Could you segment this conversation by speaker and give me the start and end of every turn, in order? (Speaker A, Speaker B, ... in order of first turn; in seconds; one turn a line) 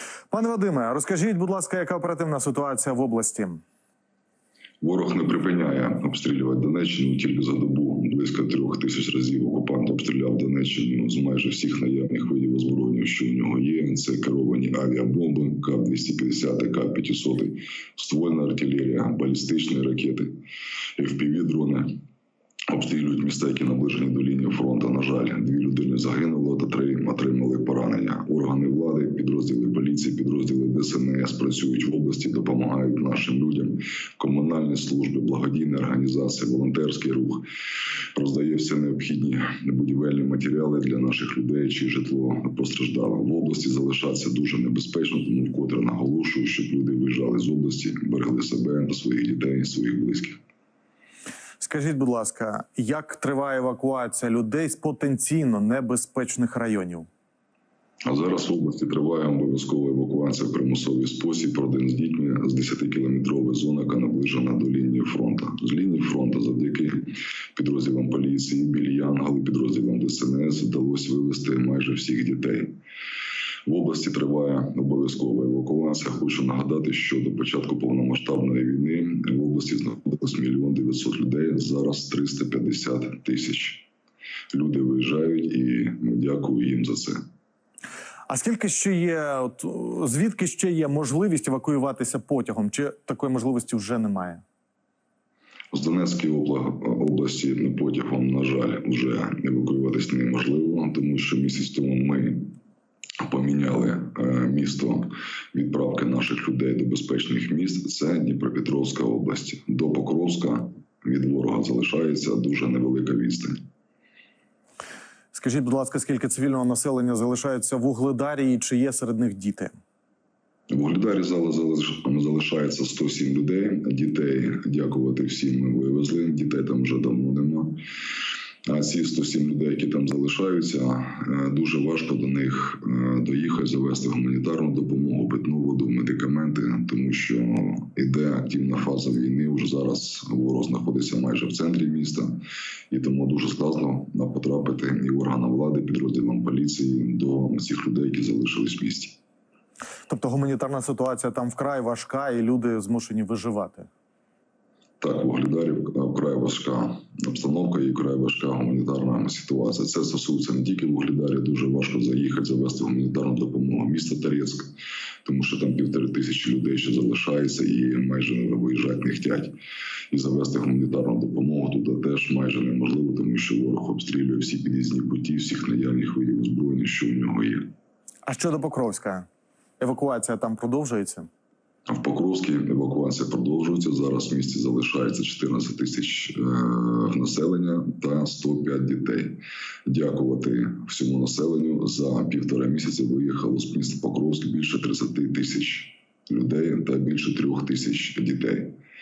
Speaker A: 0.3-3.6
Speaker B: 4.8-20.4
Speaker B: 21.0-21.9
Speaker B: 22.7-37.5
Speaker B: 38.1-50.4
Speaker A: 51.6-57.1
Speaker B: 58.0-72.8
Speaker B: 73.7-83.9
Speaker B: 84.5-87.2
Speaker A: 88.3-94.4
Speaker B: 95.7-102.5
Speaker B: 103.2-113.5
Speaker A: 115.3-119.7
Speaker B: 120.7-127.8
Speaker B: 128.7-142.4
Speaker B: 142.9-149.2
Speaker A: 150.1-153.9
Speaker B: 155.0-164.7
Speaker B: 165.2-169.5
Speaker B: 170.1-177.7
Speaker A: 178.2-179.3
Speaker A: 179.8-181.3
Speaker B: 181.9-198.8